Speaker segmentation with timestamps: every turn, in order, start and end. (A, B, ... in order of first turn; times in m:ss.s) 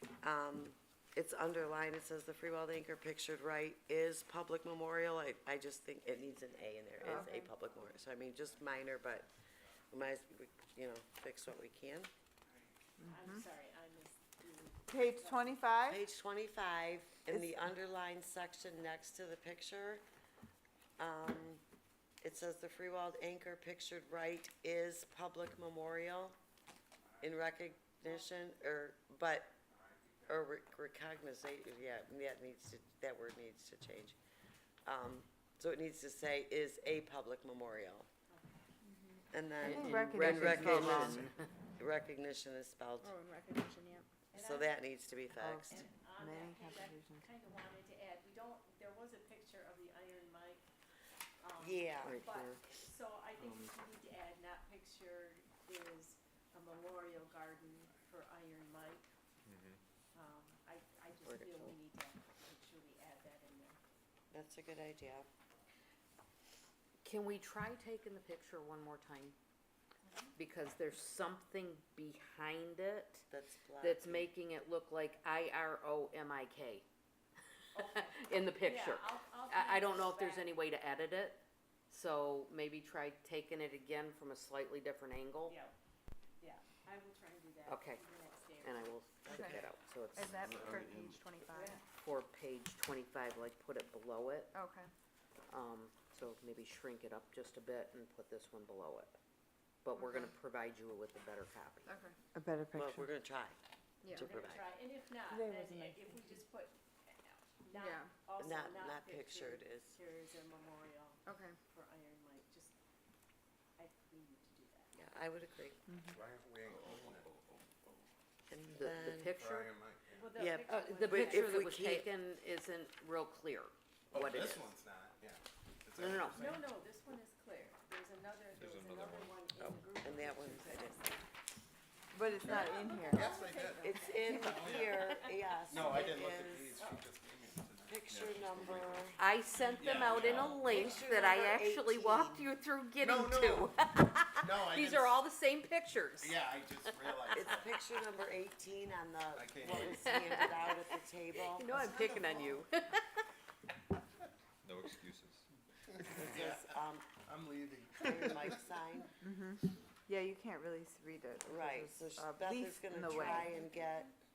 0:00.2-0:09.3 A
0:07.0-0:07.3 B
0:07.7-0:08.5 C
0:09.9-0:12.1 A
0:12.5-0:12.7 C
0:13.0-0:15.6 D
0:13.0-0:13.4 B
0:14.9-0:16.0 B
0:15.8-0:20.0 A
0:21.0-0:21.6 A
0:22.2-0:26.4 A
0:27.2-0:29.5 A
0:29.8-0:30.4 C
0:30.3-0:34.2 A
0:34.8-0:38.1 A
0:38.3-0:38.7 D
0:39.3-0:43.2 A
0:39.6-0:41.4 E
0:39.6-0:41.3 B
0:43.0-0:44.1 F
0:44.3-0:44.7 D
0:44.3-0:45.7 A
0:45.4-0:47.3 B
0:45.7-0:50.6 D
0:51.4-0:59.1 D
0:51.6-0:52.2 A
0:52.0-0:52.6 E
0:59.4-0:59.8 G
1:00.1-1:03.8 D
1:01.2-1:01.8 E
1:04.3-1:05.3 A
1:07.0-1:09.3 E
1:10.0-1:10.3 D
1:10.4-1:13.3 E
1:13.3-1:14.3 A
1:13.8-1:16.8 E
1:17.7-1:20.6 D
1:17.9-1:25.6 E
1:25.5-1:25.7 D
1:26.4-1:29.6 D
1:27.6-1:28.0 E
1:28.6-1:31.0 E
1:29.3-1:29.6 A
1:30.1-1:31.8 F
1:30.2-1:31.1 C
1:31.4-1:31.8 D
1:31.9-1:34.5 E
1:34.5-1:34.9 F
1:35.5-1:39.2 E
1:39.8-1:41.9 E
1:40.0-1:40.3 F
1:41.9-1:42.1 F
1:42.3-1:43.1 B
1:42.7-1:43.6 A
1:44.0-1:44.3 F
1:44.1-1:44.7 A
1:44.1-1:52.8 D
1:45.3-1:46.3 B
1:47.8-1:48.1 F
1:48.4-1:50.0 A
1:51.2-1:51.6 F
1:53.8-1:54.9 D
1:54.9-1:55.8 A
1:55.9-1:56.2 B
1:56.1-1:57.9 C
1:58.5-1:59.4 A
1:58.7-1:59.7 E
1:59.2-2:00.3 C
2:00.1-2:01.7 D
2:00.3-2:02.1 A
2:00.6-2:04.8 E
2:04.1-2:06.6 C
2:05.9-2:06.6 E
2:06.3-2:11.3 D
2:08.5-2:09.4 G
2:09.6-2:11.0 A
2:12.1-2:13.4 B
2:12.3-2:15.1 D
2:12.4-2:18.1 C
2:13.8-2:16.9 A
2:14.9-2:15.2 E
2:16.8-2:17.1 D
2:17.8-2:19.2 A
2:18.1-2:19.2 G
2:19.2-2:27.5 E
2:19.6-2:20.9 C
2:19.8-2:21.0 G
2:20.6-2:22.5 A
2:23.0-2:23.8 C
2:24.3-2:25.3 C
2:26.2-2:27.8 C
2:27.3-2:31.9 A
2:29.3-2:30.5 C
2:29.9-2:30.8 E
2:31.3-2:33.2 E
2:31.7-2:32.7 C
2:34.6-2:35.4 G
2:36.0-2:36.6 C
2:36.1-2:37.1 A
2:37.2-2:38.8 C
2:38.0-2:39.1 A
2:39.2-2:43.6 B
2:41.4-2:44.1 A